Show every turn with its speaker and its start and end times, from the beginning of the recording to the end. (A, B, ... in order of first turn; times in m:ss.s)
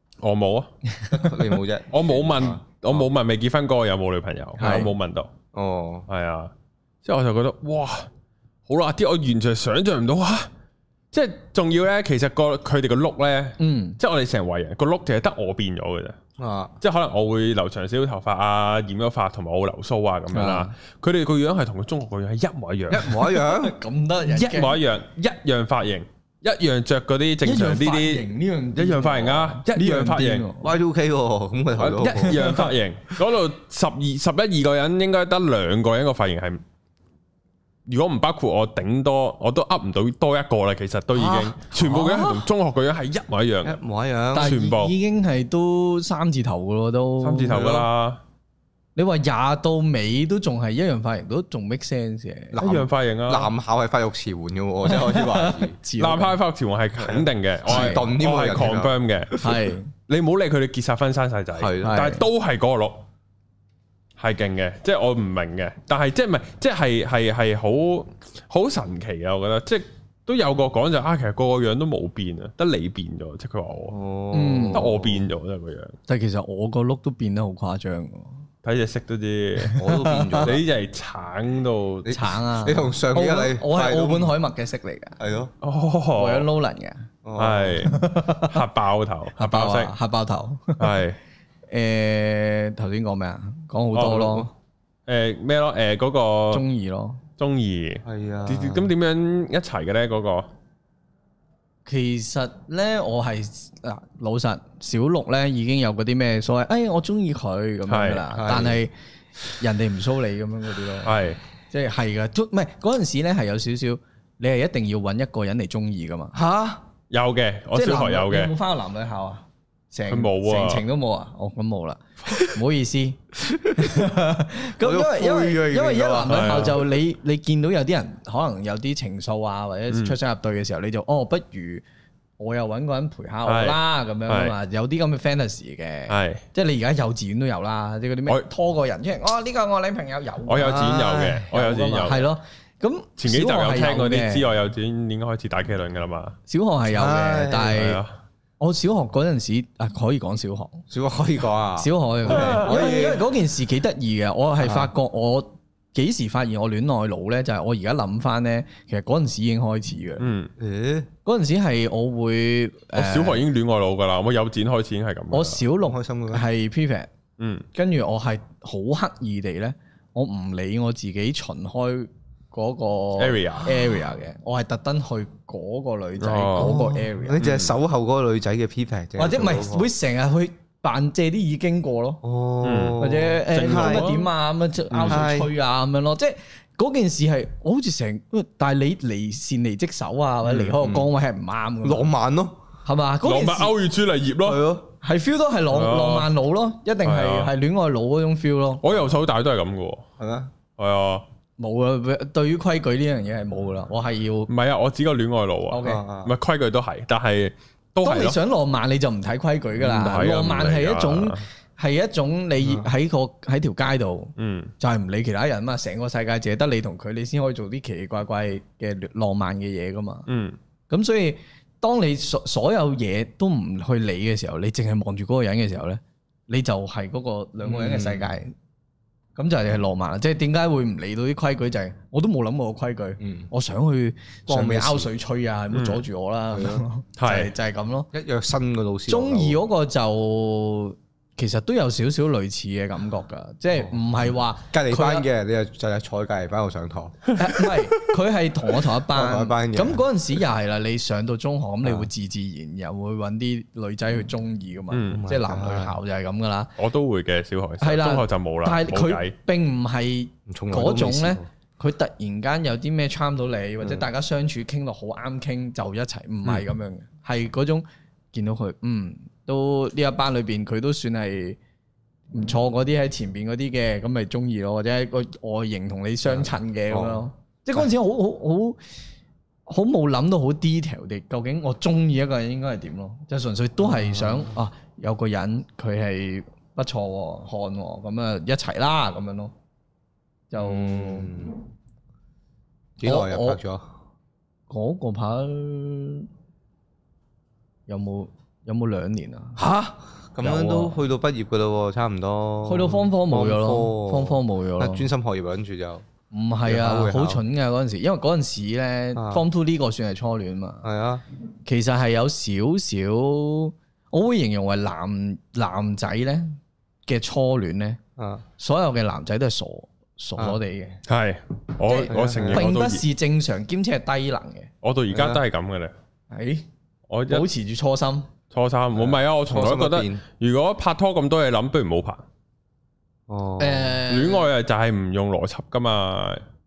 0:00.2-0:00.7 A
0:00.9-0:01.3 B
0:01.1-0:03.1 C
0:01.9-0:05.3 A
0:04.6-0:04.9 B
0:05.5-0:06.1 C
0:06.1-0:06.5 A
0:07.0-0:08.1 A
0:08.7-0:10.5 A
0:11.1-0:16.2 A
0:13.6-0:14.0 B
0:16.4-0:16.8 C
0:16.8-0:23.1 A
0:20.3-0:20.7 B
0:22.9-0:23.8 C
0:23.0-0:24.8 B
0:24.3-0:30.5 A
0:27.4-0:30.7 B
0:30.6-0:32.5 C
0:31.8-0:36.6 A
0:32.0-0:32.8 B
0:37.9-0:43.8 A
0:41.1-0:42.4 C
0:43.6-0:44.6 C
0:44.3-0:47.9 B
0:44.4-0:44.9 A
0:47.2-0:48.2 A
0:49.0-0:52.6 B
0:52.5-0:55.8 C
0:52.6-0:53.5 A
0:54.9-0:56.4 B
0:56.0-0:59.5 A
0:57.0-0:59.6 C
0:57.7-0:58.0 B
0:59.4-0:59.9 B
1:00.1-1:03.0 A
1:01.6-1:02.0 C
1:01.8-1:02.3 B
1:04.2-1:14.0 A
1:13.9-1:15.2 C
1:14.3-1:14.9 B
1:14.7-1:16.0 A
1:16.1-1:18.4 B
1:18.6-1:19.8 A
1:19.6-1:20.6 B
1:19.8-1:20.6 C
1:20.4-1:22.1 A
1:22.0-1:24.4 C
1:22.1-1:25.2 B
1:25.2-1:25.5 C
1:25.6-1:26.5 A
1:26.2-1:27.1 B
1:27.2-1:27.9 C
1:27.4-1:30.0 A
1:27.8-1:28.6 B
1:29.4-1:31.0 B
1:30.8-1:31.2 A
1:31.7-1:34.5 B
1:34.0-1:34.4 A
1:35.1-1:36.6 A
1:36.5-1:37.2 B
1:37.4-1:40.5 A
1:38.0-1:38.9 C
1:41.9-1:48.9 B
1:47.9-1:48.3 A
1:48.3-1:48.8 C
1:49.6-1:51.2 B
1:51.0-1:51.4 A
1:51.7-1:56.4 B
1:56.3-1:56.8 C
1:57.1-1:58.5 A
1:57.7-2:11.8 B
2:00.1-2:00.8 A
2:03.4-2:04.0 C
2:04.8-2:06.8 C
2:06.3-2:06.8 A
2:09.9-2:10.2 A
2:12.4-2:24.5 B
2:13.5-2:14.5 A
2:16.1-2:16.4 A
2:20.5-2:22.3 A
2:20.6-2:21.5 C
2:23.2-2:26.4 A
2:26.5-2:28.0 B
2:26.9-2:27.8 C
2:27.7-2:28.1 A
2:28.6-2:30.8 B
2:30.9-2:33.2 C
2:31.8-2:40.3 B
2:32.3-2:32.8 A
2:34.6-2:34.9 C
2:40.2-2:40.5 A
2:40.6-2:41.1 C
2:41.2-2:43.4 B
2:43.0-2:45.6 A
2:45.3-2:47.1 B
2:45.8-2:46.5 C
2:47.4-2:47.7 A
2:47.7-2:57.4 B
2:53.2-2:53.7 A
2:56.2-2:56.8 A
2:56.6-2:59.9 C
2:57.4-2:57.8 A
2:59.2-3:02.2 B
3:02.2-3:04.2 C
3:02.6-3:04.2 A
3:03.0-3:12.1 B
3:04.9-3:05.2 A
3:05.1-3:05.5 C
3:10.4-3:11.1 C
3:11.8-3:12.6 C
3:12.8-3:13.7 B
3:13.2-3:14.6 A
3:14.4-3:14.9 C
3:15.0-3:18.9 B
3:15.7-3:16.3 A
3:17.0-3:17.5 A
3:18.8-3:20.0 A
3:20.2-3:20.5 C
3:20.8-3:21.2 A
3:21.6-3:24.5 B
3:24.5-3:28.4 A
3:25.7-3:26.0 B
3:25.8-3:26.4 C
3:28.0-3:40.3 B
3:29.8-3:31.4 A
3:32.6-3:32.9 C
3:34.4-3:34.7 A
3:40.3-3:40.6 A
3:40.9-3:48.5 B
3:47.6-3:48.3 C
3:49.4-3:58.1 B
3:53.2-3:53.5 C
3:54.5-3:55.1 C
3:55.7-3:56.0 A
3:56.5-3:56.8 C
3:57.2-3:57.5 A
3:58.1-3:59.6 C
3:59.1-4:05.3 B
4:04.7-4:07.8 C
4:07.3-4:16.8 B
4:09.1-4:10.0 C
4:11.8-4:12.1 C
4:14.9-4:15.2 A
4:15.1-4:16.0 C
4:16.8-4:19.3 A
4:17.8-4:31.6 B
4:20.5-4:21.5 C
4:32.3-4:38.8 B
4:36.3-4:37.3 C
4:39.7-4:49.5 B
4:43.8-4:44.6 C
4:50.5-4:51.3 B
4:50.6-4:51.6 C
4:53.0-4:53.9 C
4:53.0-4:53.6 B
4:54.7-4:56.3 B
4:57.9-4:59.6 B
4:59.6-5:06.0 C
5:00.4-5:01.0 B
5:02.6-5:05.1 B
5:06.3-5:10.9 B
5:06.7-5:07.4 C
5:09.2-5:09.5 C
5:10.8-5:11.2 C
5:11.7-5:18.0 B
5:18.2-5:18.4 C
5:18.6-5:21.0 B
5:21.1-5:23.0 A
5:21.8-5:24.7 B
5:22.1-5:22.7 C
5:24.8-5:25.9 A
5:25.1-5:25.4 C
5:26.3-5:26.7 B
5:27.1-5:27.5 A
5:27.3-5:28.3 B
5:28.5-5:32.2 A
5:29.0-5:30.2 C
5:33.3-5:34.0 C
5:33.6-5:34.5 B
5:34.1-5:36.4 A